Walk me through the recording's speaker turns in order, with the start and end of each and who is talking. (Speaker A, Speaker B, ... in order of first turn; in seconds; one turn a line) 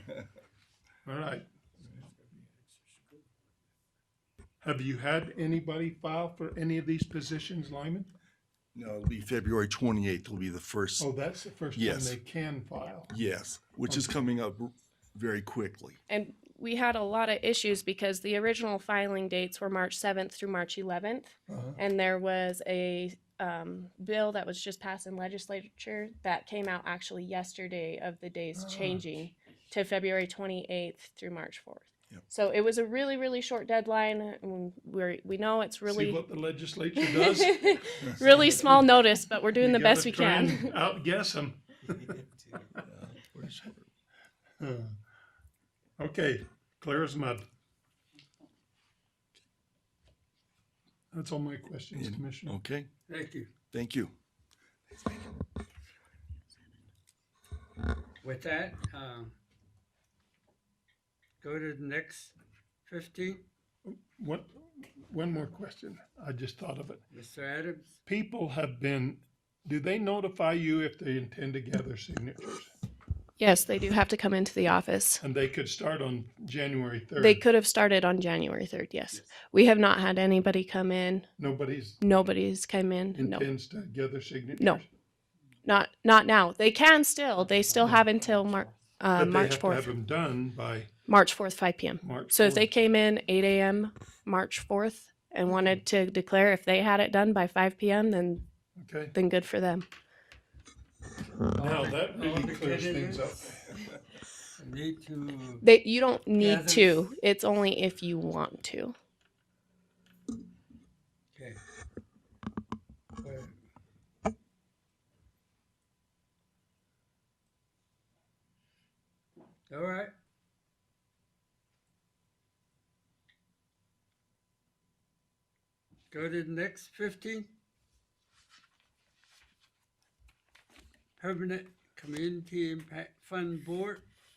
Speaker A: 1.1-1.5
Speaker A: 4.6-8.1
Speaker B: 8.8-11.1
Speaker A: 11.0-13.1
Speaker B: 11.8-12.2
Speaker B: 13.1-16.0
Speaker C: 16.1-36.2
Speaker A: 21.5-21.8
Speaker A: 28.6-29.3
Speaker A: 35.9-38.9
Speaker C: 37.0-40.7
Speaker A: 39.6-41.8
Speaker B: 42.9-43.9
Speaker A: 44.6-45.0
Speaker A: 46.0-47.4
Speaker A: 51.1-52.6
Speaker B: 51.9-52.9
Speaker D: 53.1-53.5
Speaker B: 53.7-54.1
Speaker B: 54.9-55.2
Speaker D: 58.2-59.4
Speaker D: 61.4-62.4
Speaker D: 62.9-63.5
Speaker A: 63.9-67.0
Speaker D: 67.1-68.0
Speaker A: 68.1-72.7
Speaker C: 73.4-75.2
Speaker A: 75.2-77.4
Speaker C: 77.2-81.3
Speaker A: 81.4-82.0
Speaker C: 82.0-83.5
Speaker A: 83.2-84.9
Speaker C: 84.6-84.8
Speaker C: 85.6-90.0
Speaker A: 89.2-90.9
Speaker C: 91.1-98.5
Speaker A: 92.0-92.7
Speaker A: 98.8-99.2
Speaker C: 99.1-99.9
Speaker A: 101.5-103.8
Speaker D: 101.6-103.8
Speaker D: 104.6-105.6
Speaker C: 105.6-108.9
Speaker D: 106.4-107.1
Speaker D: 111.3-111.6
Speaker D: 113.2-113.5
Speaker D: 119.7-120.1
Speaker D: 126.1-127.5
Speaker D: 131.2-134.1